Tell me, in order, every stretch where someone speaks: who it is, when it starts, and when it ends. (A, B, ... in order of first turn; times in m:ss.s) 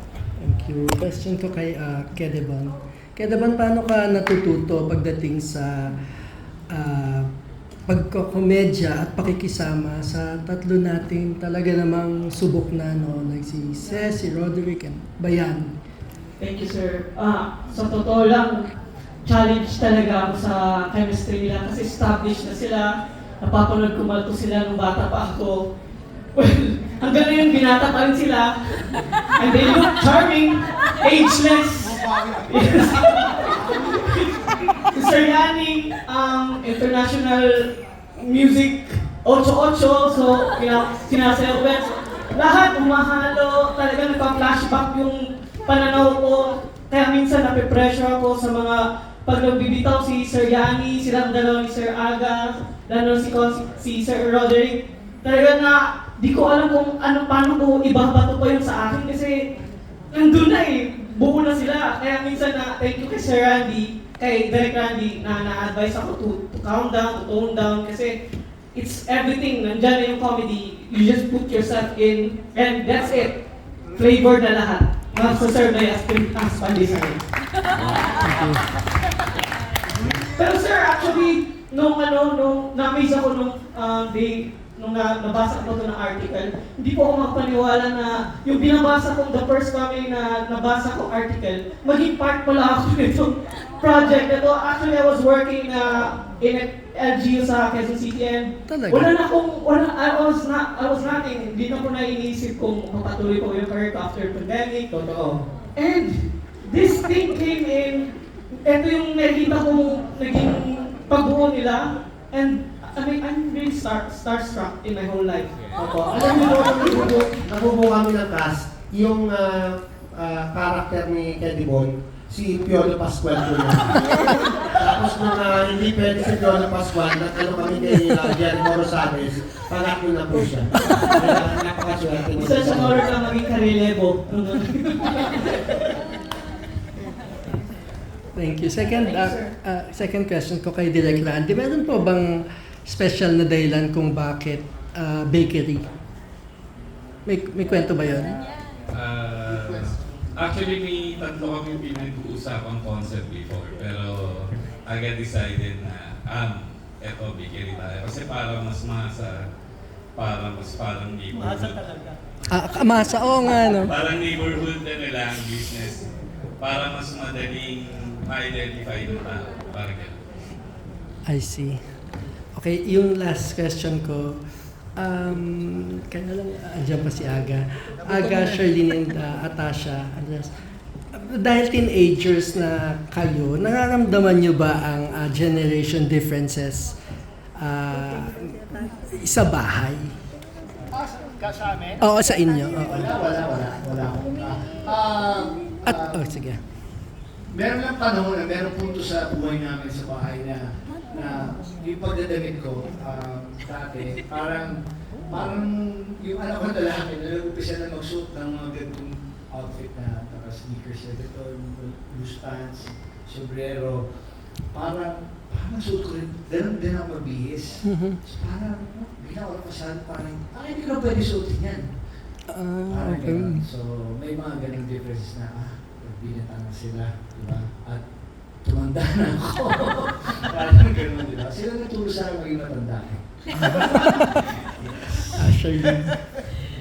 0:00.4-0:05.7 A
0:06.7-0:07.3 A
0:07.9-0:15.7 A
0:16.4-0:18.6 B
0:19.2-0:22.9 B
0:23.4-0:25.6 B
0:26.4-0:28.8 B
0:29.4-0:34.3 B
0:34.9-0:37.6 B
0:38.2-0:59.4 B
1:00.1-1:08.1 B
1:08.7-1:13.3 B
1:14.0-1:17.2 B
1:18.3-1:18.6 A
1:20.4-1:48.0 B
1:38.7-1:39.1 A
1:48.6-1:55.5 B
1:55.8-2:03.9 C
2:04.8-2:13.1 C
2:12.4-2:15.4 B
2:18.4-2:25.9 A
2:19.0-2:19.4 B
2:27.2-2:28.4 A
2:28.9-2:39.4 D
2:40.2-2:41.8 D
2:42.5-2:43.9 A
2:43.8-2:46.0 D
2:46.6-2:50.2 D
2:51.3-2:51.8 A
2:52.6-2:54.3 A
2:55.0-3:00.5 A
3:01.1-3:07.0 A
3:07.6-3:08.5 A
3:09.1-3:10.1 A
3:10.9-3:11.8 E
3:12.0-3:13.0 A
3:12.8-3:16.2 E
3:15.8-3:16.6 A
3:17.5-3:42.2 E
3:37.8-3:38.2 A
3:42.5-3:43.6 A
3:42.9-3:54.2 E
3:54.8-3:55.2 E
3:55.3-3:56.0 A